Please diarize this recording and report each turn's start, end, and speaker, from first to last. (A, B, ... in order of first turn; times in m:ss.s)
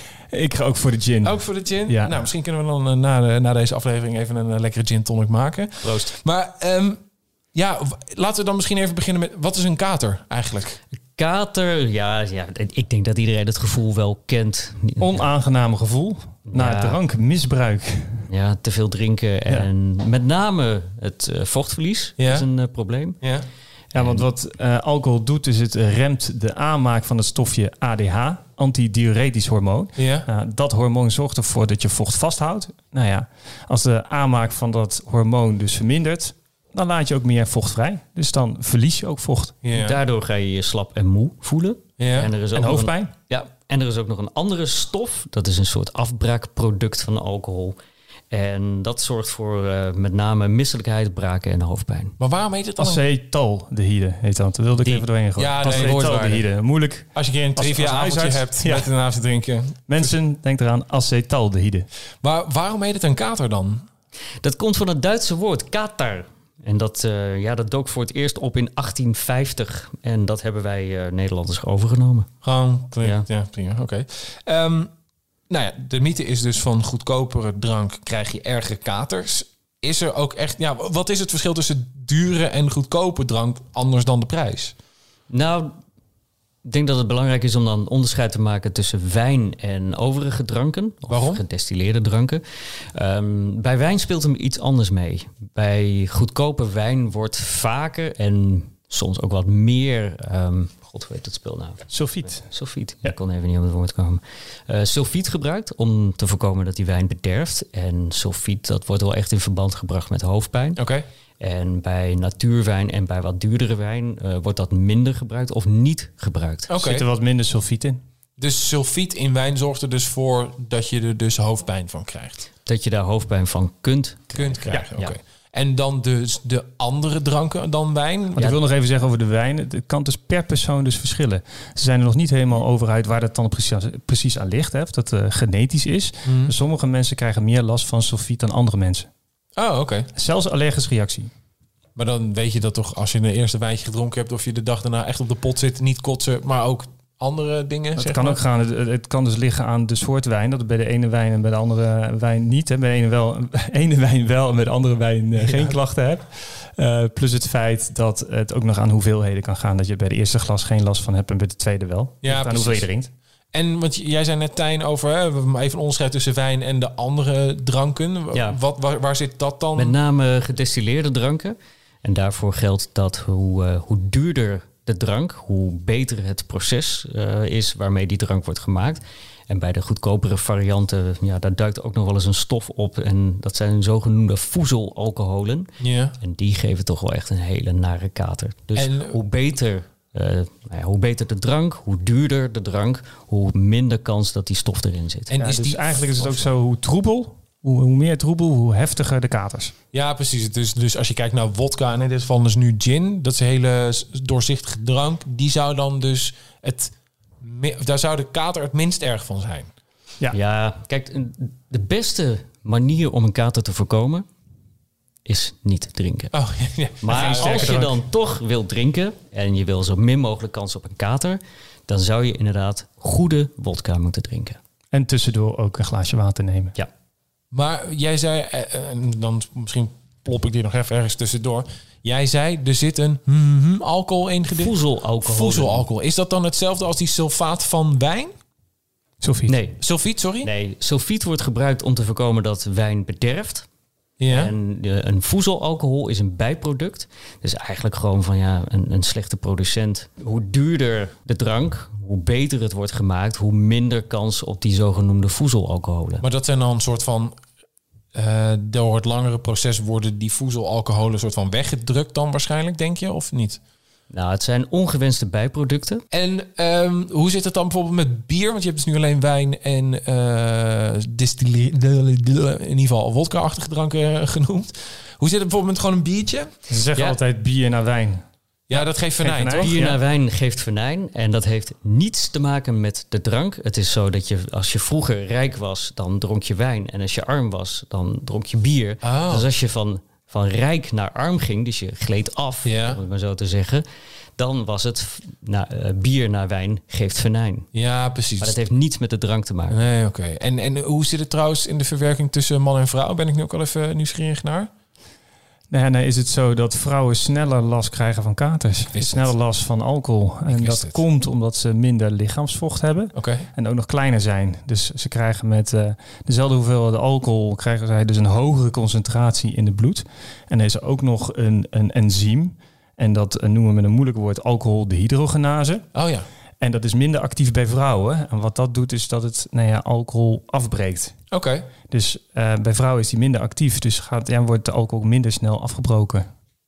0:00.3-0:02.2 A
0:01.2-0:07.0 B
0:05.8-0:06.1 C
0:07.5-0:10.8 B
0:11.2-0:15.2 C
0:15.0-0:18.3 A
0:16.5-0:17.0 C
0:18.3-0:23.2 C
0:22.2-0:22.5 B
0:23.9-0:24.3 C
0:23.9-0:39.6 A
0:30.0-0:30.3 B
0:39.6-0:40.0 B
0:39.7-0:47.8 C
0:42.0-0:42.3 B
0:42.5-0:43.1 A
0:48.3-0:52.1 C
0:52.2-0:53.0 B
0:52.8-0:58.9 A
0:55.4-0:56.5 B
0:55.6-0:56.0 C
0:57.1-1:00.1 B
0:59.9-1:01.9 A
1:02.2-1:03.9 B
1:04.4-1:12.3 C
1:12.4-1:14.9 B
1:15.5-1:24.7 B
1:25.3-1:25.7 C
1:26.6-1:32.4 C
1:31.1-1:31.4 B
1:32.9-1:50.8 C
1:41.9-1:42.5 A
1:50.8-1:51.0 B
1:51.4-1:56.7 C
1:56.7-1:57.1 B
1:56.8-1:58.0 A
1:58.4-2:02.4 B
2:02.7-2:05.2 C
2:04.3-2:08.5 B
2:08.4-2:19.1 A
2:16.2-2:16.5 B
2:19.6-2:20.1 B
2:20.1-2:21.3 A
2:22.0-2:28.4 B
2:28.0-2:43.1 A
2:35.4-2:35.8 B
2:42.2-2:42.9 B
2:43.5-2:50.0 B
2:48.3-2:48.6 C
2:49.8-3:05.7 C
3:05.8-3:06.2 B
3:06.2-3:15.3 C
3:08.8-3:09.2 B
3:15.3-3:16.5 B
3:15.3-3:19.7 A
3:19.9-3:29.7 B
3:30.3-3:34.3 C
3:35.3-3:36.3 C
3:36.3-3:37.8 B
3:37.0-3:44.6 C
3:37.1-3:38.0 A
3:44.9-3:46.8 A
3:47.5-3:58.3 B
3:54.5-3:55.9 C
3:59.2-3:59.6 A
3:59.5-3:59.8 C
3:59.8-4:00.5 B
4:00.4-4:03.7 C
4:04.2-4:04.5 B
4:04.3-4:16.2 C
4:16.2-4:17.4 B
4:18.1-4:23.6 B
4:24.1-4:26.0 C
4:26.1-4:36.5 B
4:36.7-4:38.2 A
4:36.9-4:37.2 C
4:38.7-4:39.8 B
4:38.7-4:40.0 A
4:39.6-4:53.8 C
4:49.0-4:49.5 B
4:52.6-4:53.0 B
4:54.4-4:57.7 C
4:57.7-4:58.6 B
4:58.4-4:59.8 C
4:59.7-5:04.7 B
5:05.7-5:25.9 A
5:08.9-5:09.3 B
5:10.5-5:11.0 B
5:13.2-5:13.5 B
5:25.9-5:26.3 B
5:26.6-5:31.1 A
5:31.3-5:31.7 B
5:31.9-5:36.2 A